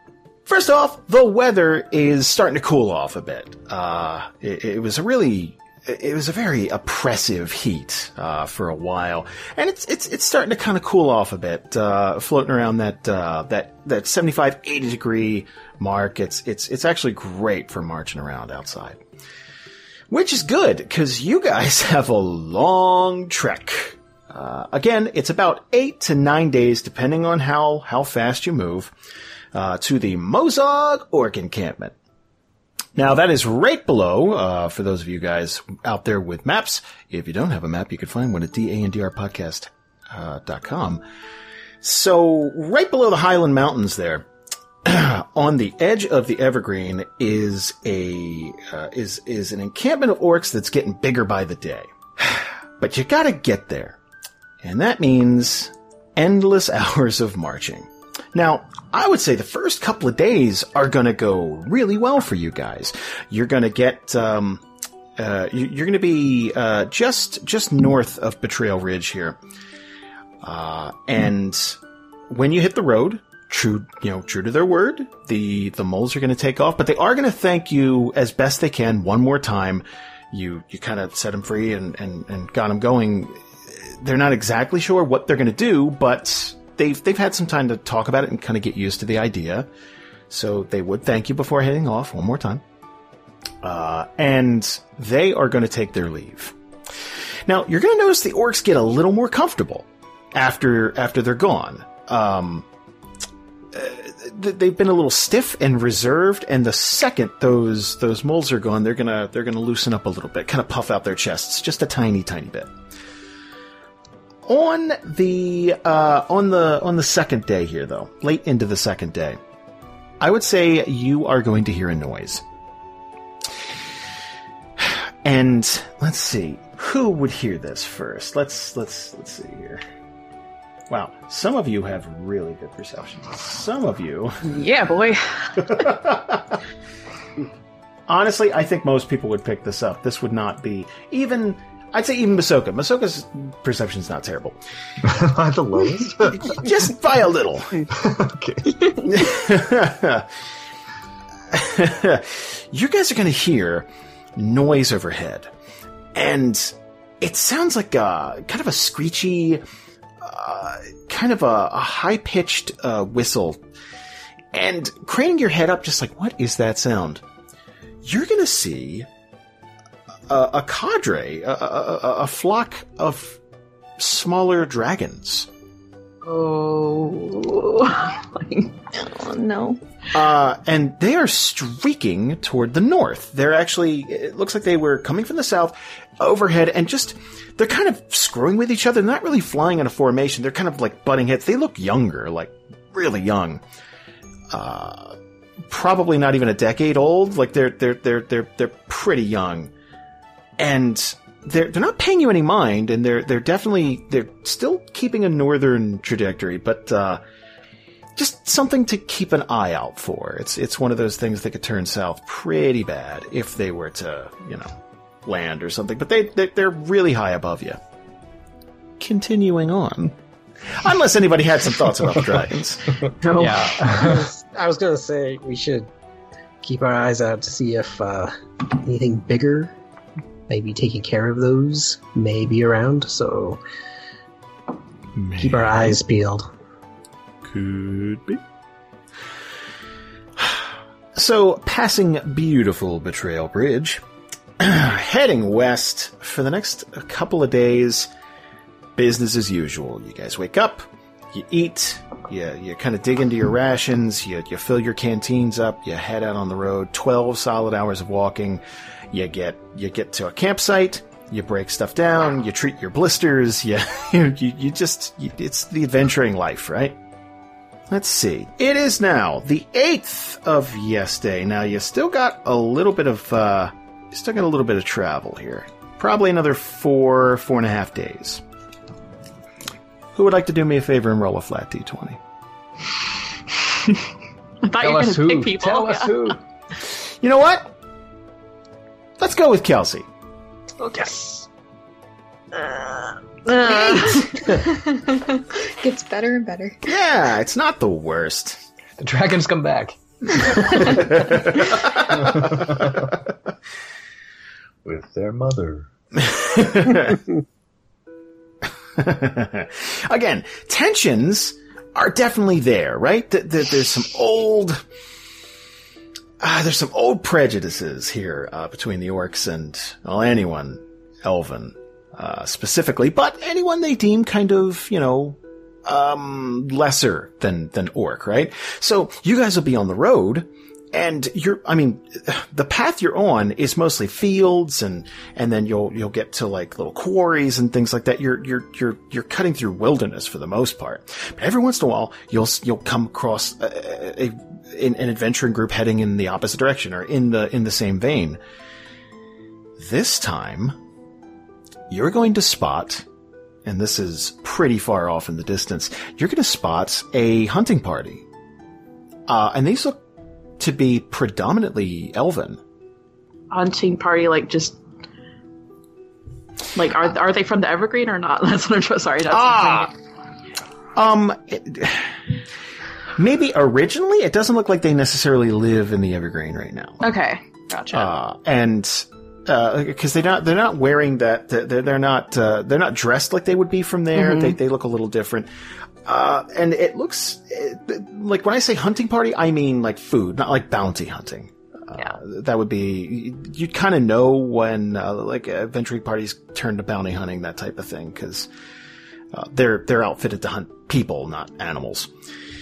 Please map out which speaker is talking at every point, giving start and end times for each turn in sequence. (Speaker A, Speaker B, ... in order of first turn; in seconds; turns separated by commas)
Speaker A: 0.5-19.0, Speaker A: 20.1-28.9, Speaker A: 29.5-31.9, Speaker A: 32.9-41.0, Speaker A: 41.8-44.3, Speaker A: 44.8-54.0, Speaker A: 54.6-64.6, Speaker A: 65.2-69.4, Speaker A: 70.4-89.7, Speaker A: 90.3-92.6, Speaker A: 93.6-96.5, Speaker A: 97.5-102.7, Speaker A: 103.7-112.7, Speaker A: 114.4-119.4, Speaker A: 120.2-122.4, Speaker A: 124.8-129.8, Speaker A: 130.9-134.5, Speaker B: 134.4-135.7, Speaker A: 135.6-136.6, Speaker A: 138.1-144.6, Speaker C: 145.0-146.6, Speaker A: 146.4-147.9, Speaker C: 147.9-148.8, Speaker A: 149.0-150.3, Speaker A: 151.5-155.5, Speaker A: 156.1-159.6, Speaker A: 160.2-163.6, Speaker A: 164.5-167.2, Speaker A: 168.0-169.1, Speaker A: 170.3-173.4, Speaker A: 174.0-175.5, Speaker B: 176.2-178.8, Speaker D: 178.9-179.8, Speaker A: 180.1-193.6, Speaker A: 194.5-195.2, Speaker A: 195.7-199.7, Speaker A: 200.6-207.2, Speaker A: 208.2-214.7, Speaker A: 215.2-217.8, Speaker A: 219.0-220.2, Speaker A: 220.7-223.0, Speaker B: 223.2-223.6, Speaker E: 223.4-224.3, Speaker F: 223.4-225.9, Speaker F: 226.6-229.7, Speaker F: 230.5-233.6, Speaker A: 235.2-235.9, Speaker F: 235.4-236.5, Speaker A: 237.4-238.4, Speaker A: 240.4-244.0, Speaker A: 244.6-248.1, Speaker A: 248.9-267.0, Speaker A: 267.9-278.4, Speaker A: 280.1-282.2, Speaker B: 284.6-286.4, Speaker E: 284.8-286.4, Speaker A: 286.9-287.7, Speaker A: 289.2-290.1, Speaker B: 290.8-291.5, Speaker B: 292.5-294.6, Speaker D: 293.6-296.8, Speaker A: 296.8-298.6, Speaker E: 299.0-300.9, Speaker A: 300.8-302.5, Speaker C: 302.4-303.0, Speaker C: 304.8-305.9, Speaker A: 306.2-307.2, Speaker A: 309.0-314.8, Speaker A: 316.4-348.4, Speaker A: 349.8-350.8, Speaker A: 351.9-353.0, Speaker A: 353.6-358.2, Speaker A: 359.3-360.0, Speaker A: 360.6-362.6, Speaker B: 363.5-364.8, Speaker B: 366.7-369.9, Speaker A: 369.3-369.9, Speaker A: 370.9-372.1, Speaker A: 373.1-377.0, Speaker B: 377.0-378.1, Speaker A: 377.9-385.5, Speaker B: 384.1-384.5, Speaker A: 386.0-398.5, Speaker A: 399.3-402.1